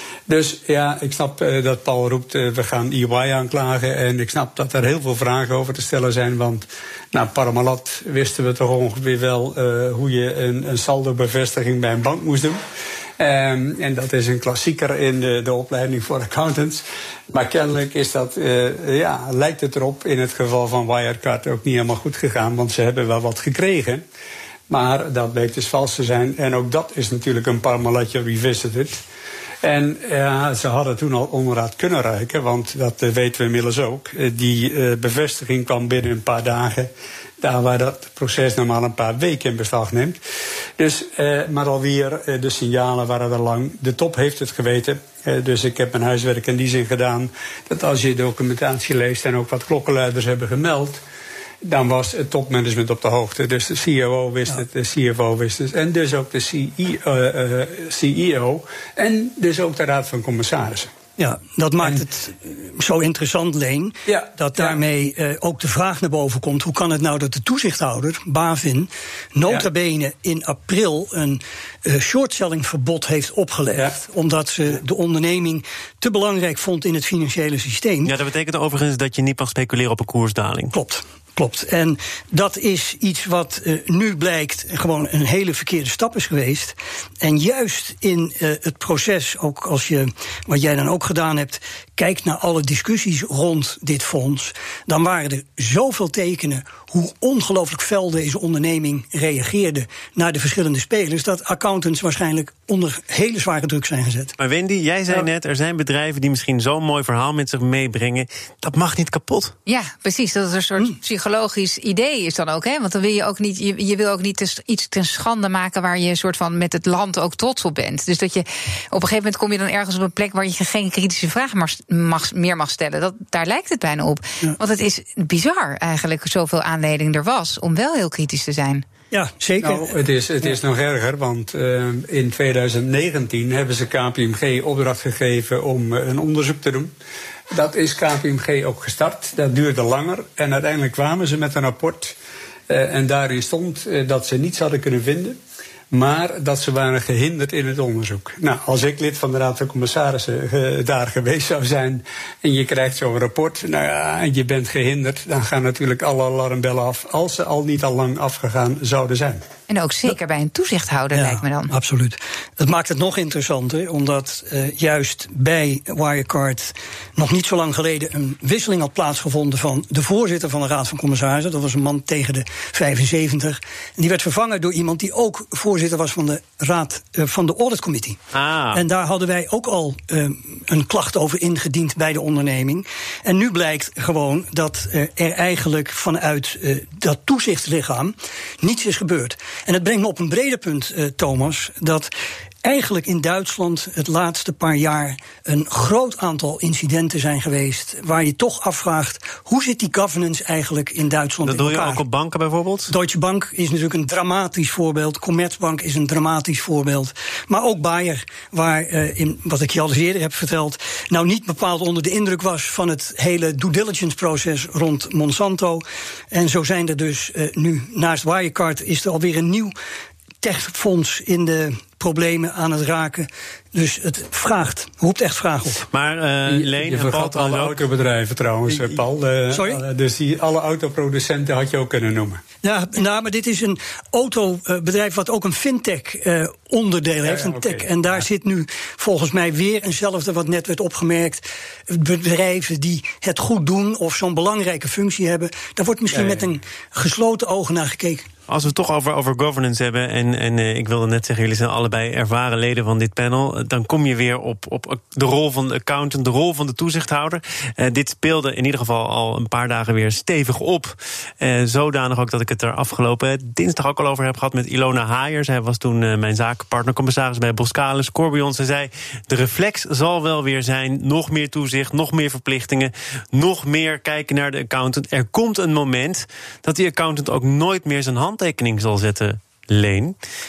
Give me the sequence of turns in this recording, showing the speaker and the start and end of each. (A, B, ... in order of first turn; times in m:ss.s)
0:00.3-0:12.6 A
0:13.2-0:24.0 A
0:24.7-0:29.0 A
0:29.6-0:40.2 A
0:40.8-0:51.0 A
0:51.6-1:00.9 A
1:01.2-1:18.1 B
1:04.1-1:04.7 A
1:18.0-1:20.7 C
1:20.7-1:44.3 B
1:44.4-1:49.5 C
1:49.6-2:08.8 D
2:09.1-2:09.9 B
2:09.6-2:16.9 A
2:17.5-2:22.1 A
2:22.7-2:25.4 A
2:25.9-2:39.4 A
2:39.7-2:41.7 D
2:41.1-2:58.2 B
2:58.3-2:58.8 C
2:58.7-3:12.1 B
3:12.6-3:22.0 B
3:21.4-3:22.9 C
3:22.9-3:39.7 B
3:40.4-3:45.9 B
3:45.9-3:47.8 C
3:46.5-3:52.4 A
3:49.5-3:49.8 B
3:52.6-4:08.3 B
3:57.2-3:58.2 A
4:08.5-4:40.2 C